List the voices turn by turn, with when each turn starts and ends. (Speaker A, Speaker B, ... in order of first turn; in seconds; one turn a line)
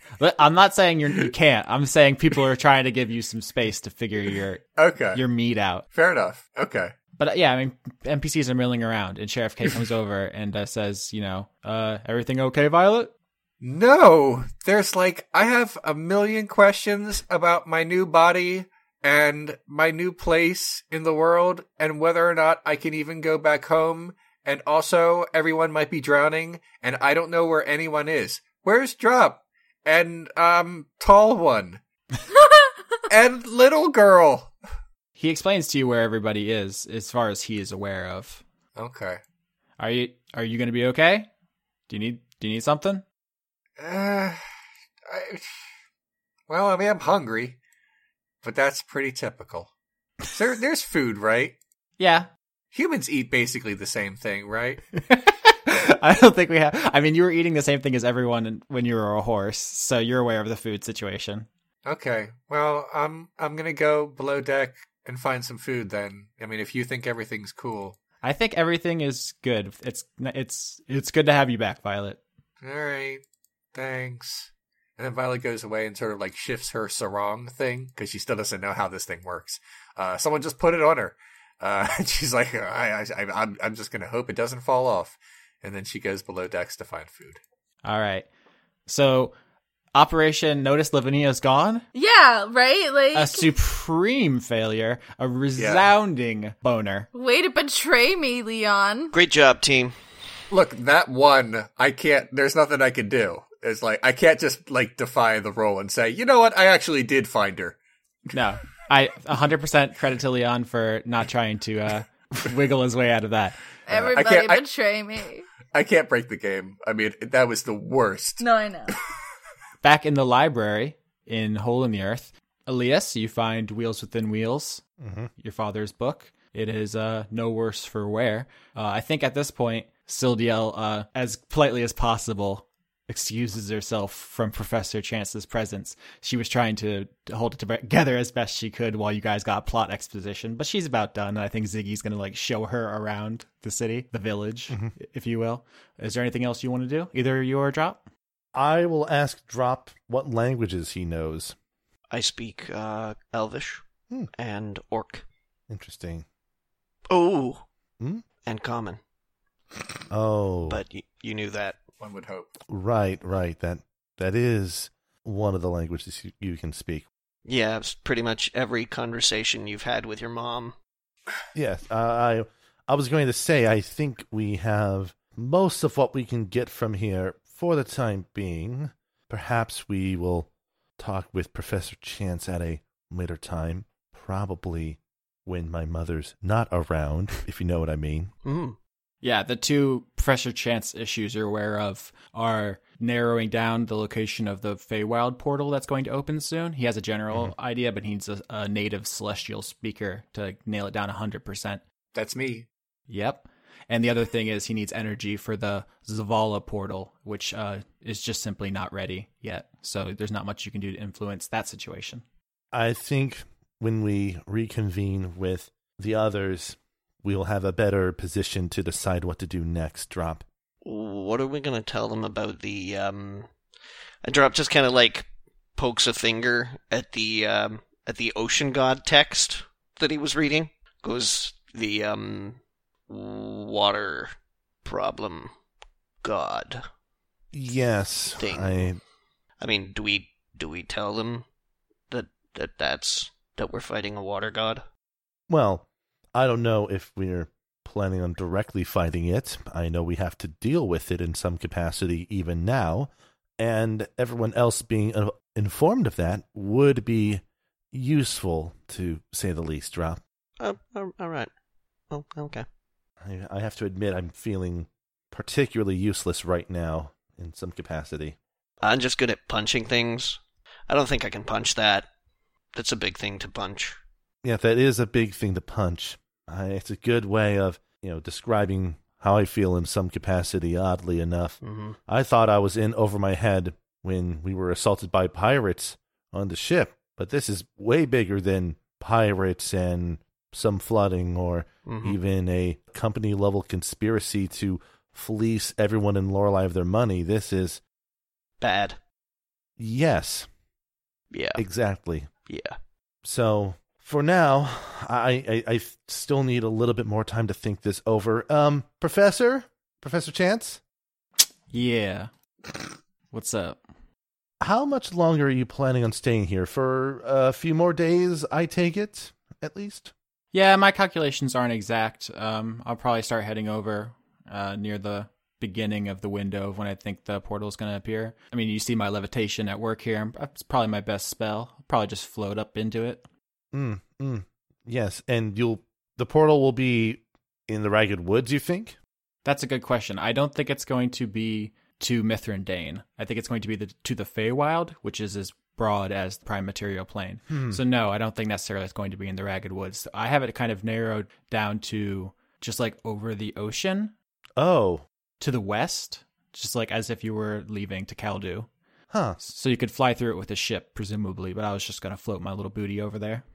Speaker A: 0.2-5.8
Speaker B: 4.8-5.2
Speaker B: 5.9-6.9
Speaker A: 7.2-13.1
Speaker B: 13.6-31.8
Speaker B: 33.1-34.5
Speaker A: 35.2-38.4
Speaker B: 38.8-39.2
Speaker A: 39.8-41.3
Speaker A: 41.9-43.0
Speaker B: 43.8-44.4
Speaker B: 45.1-45.6
Speaker B: 46.5-47.6
Speaker B: 48.4-49.7
Speaker B: 50.3-51.6
Speaker A: 52.0-52.3
Speaker B: 52.7-54.8
Speaker A: 55.0-61.5
Speaker B: 61.8-68.0
Speaker A: 68.2-72.2
Speaker B: 72.6-73.2
Speaker B: 73.7-87.4
Speaker A: 87.8-88.3
Speaker A: 88.9-89.3
Speaker A: 89.9-91.8
Speaker C: 91.9-93.5
Speaker A: 93.2-97.1
Speaker B: 95.6-95.9
Speaker C: 97.1-99.1
Speaker D: 99.1-100.0
Speaker B: 100.5-107.8
Speaker A: 108.3-113.6
Speaker C: 113.9-115.5
Speaker B: 113.9-114.6
Speaker B: 115.7-118.5
Speaker C: 118.4-119.0
Speaker A: 119.8-124.8
Speaker E: 125.0-125.3
Speaker A: 125.4-148.0
Speaker E: 148.5-151.5
Speaker D: 152.1-153.8
Speaker D: 154.4-155.2
Speaker E: 155.7-156.2
Speaker D: 157.1-157.6
Speaker D: 158.4-159.0
Speaker E: 160.1-160.8
Speaker D: 160.7-161.8
Speaker B: 162.0-162.5
Speaker E: 162.7-167.1
Speaker D: 167.5-170.7
Speaker E: 171.5-188.3
Speaker D: 188.4-188.8
Speaker A: 189.2-201.8
Speaker B: 202.2-202.7
Speaker A: 203.1-212.2
Speaker E: 212.7-220.4
Speaker D: 220.8-223.5
Speaker D: 224.2-235.5
Speaker D: 236.2-236.8
Speaker E: 237.5-239.0
Speaker D: 238.4-238.9
Speaker D: 239.6-241.4
Speaker D: 242.1-244.8
Speaker E: 245.5-260.2
Speaker D: 260.6-261.5
Speaker D: 262.1-262.6
Speaker E: 263.2-268.4
Speaker D: 268.8-272.1
Speaker D: 272.8-274.0
Speaker E: 274.4-297.8
Speaker D: 281.6-282.0
Speaker D: 291.9-292.1
Speaker D: 298.6-299.0
Speaker E: 299.8-300.5
Speaker D: 301.3-301.6
Speaker E: 301.6-302.3
Speaker D: 302.5-302.8
Speaker E: 303.2-310.8
Speaker A: 311.7-313.8
Speaker E: 314.6-320.1
Speaker A: 320.5-333.3
Speaker E: 333.7-339.0
Speaker A: 339.4-354.1
Speaker E: 347.5-347.8
Speaker E: 354.6-355.1
Speaker A: 355.4-358.7
Speaker E: 359.1-359.4
Speaker A: 359.4-363.4